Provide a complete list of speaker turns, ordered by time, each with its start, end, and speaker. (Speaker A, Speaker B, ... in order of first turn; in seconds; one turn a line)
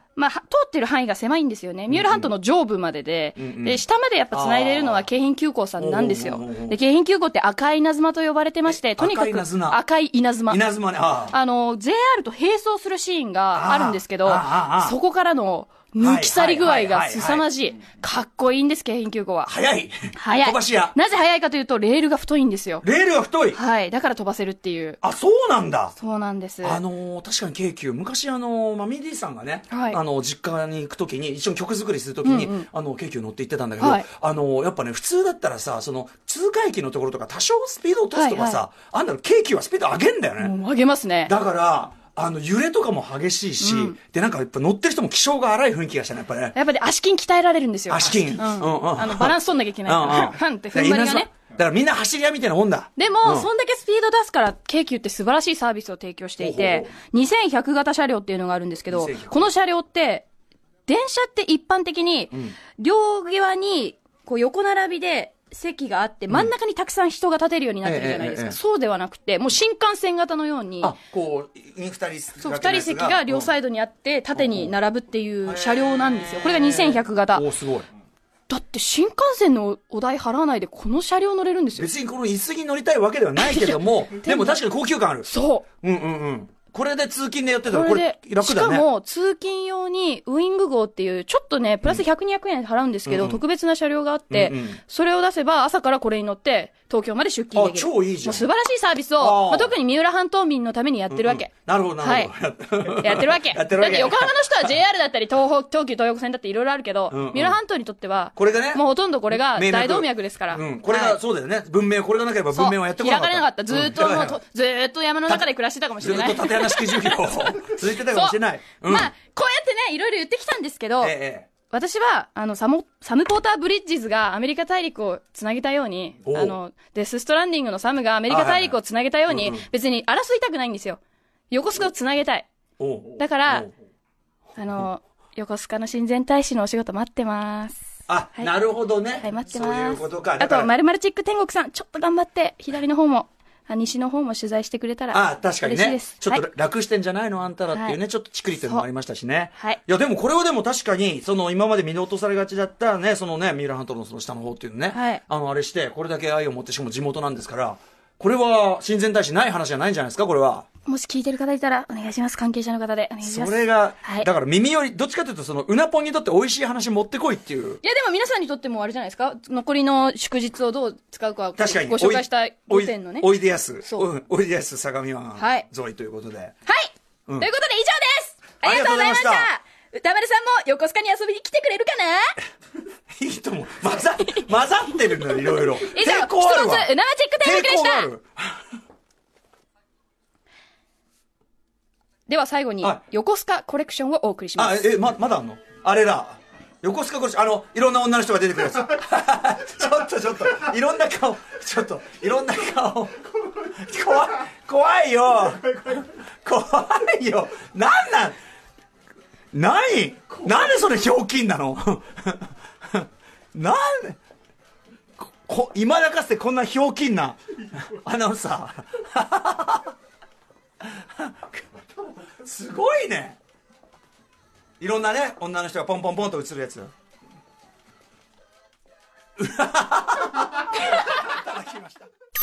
Speaker A: 0.2-10.6
Speaker B: 1.9-2.3
Speaker B: 3.4-5.1
Speaker B: 5.8-6.8
Speaker B: 8.7-9.8
Speaker B: 10.5-11.3
Speaker A: 11.3-19.5
Speaker B: 13.5-15.0
Speaker B: 16.0-17.5
Speaker B: 19.5-21.0
Speaker A: 20.1-22.9
Speaker B: 22.8-23.6
Speaker A: 23.5-25.0
Speaker B: 25.0-25.9
Speaker A: 26.0-26.8
Speaker B: 26.6-40.5
Speaker A: 29.7-30.0
Speaker A: 32.2-32.7
Speaker A: 33.8-34.1
Speaker A: 38.1-38.6
Speaker A: 40.4-41.3
Speaker B: 41.3-46.6
Speaker A: 43.6-44.0
Speaker A: 46.5-51.3
Speaker B: 47.9-53.5
Speaker A: 53.0-60.3
Speaker B: 56.4-56.9
Speaker B: 58.9-59.5
Speaker A: 60.9-71.0
Speaker B: 67.8-68.6
Speaker B: 70.8-73.5
Speaker A: 72.4-77.5
Speaker B: 74.3-74.7
Speaker B: 75.5-77.9
Speaker A: 78.5-81.9
Speaker B: 81.8-85.3
Speaker A: 83.4-84.6
Speaker A: 85.2-85.7
Speaker B: 85.8-88.9
Speaker A: 87.7-102.3
Speaker B: 93.1-93.4
Speaker B: 94.3-94.8
Speaker B: 97.5-98.5
Speaker B: 99.2-99.8
Speaker B: 101.1-104.7
Speaker A: 102.9-111.2
Speaker B: 107.1-107.6
Speaker B: 108.3-114.4
Speaker A: 112.5-121.1
Speaker B: 116.0-119.1
Speaker B: 121.0-121.5
Speaker A: 121.7-131.0
Speaker B: 126.2-126.6
Speaker B: 128.3-128.8
Speaker B: 129.3-129.7
Speaker A: 131.5-132.5
Speaker B: 132.8-133.7
Speaker A: 133.2-133.7
Speaker A: 134.6-138.5
Speaker B: 138.1-140.7
Speaker A: 139.2-146.4
Speaker B: 145.1-160.7
Speaker A: 147.7-148.0
Speaker A: 148.6-148.8
Speaker A: 154.9-155.2
Speaker A: 160.9-164.3
Speaker B: 163.2-167.8
Speaker A: 167.8-174.1
Speaker B: 171.6-176.6
Speaker A: 175.4-175.7
Speaker A: 176.7-182.4
Speaker B: 178.6-179.5
Speaker B: 183.1-188.6
Speaker A: 185.2-188.1
Speaker A: 192.3-194.9
Speaker B: 194.6-208.4
Speaker B: 209.5-214.2
Speaker B: 215.2-219.9
Speaker B: 220.8-223.4
Speaker B: 224.8-226.9
Speaker B: 229.4-232.1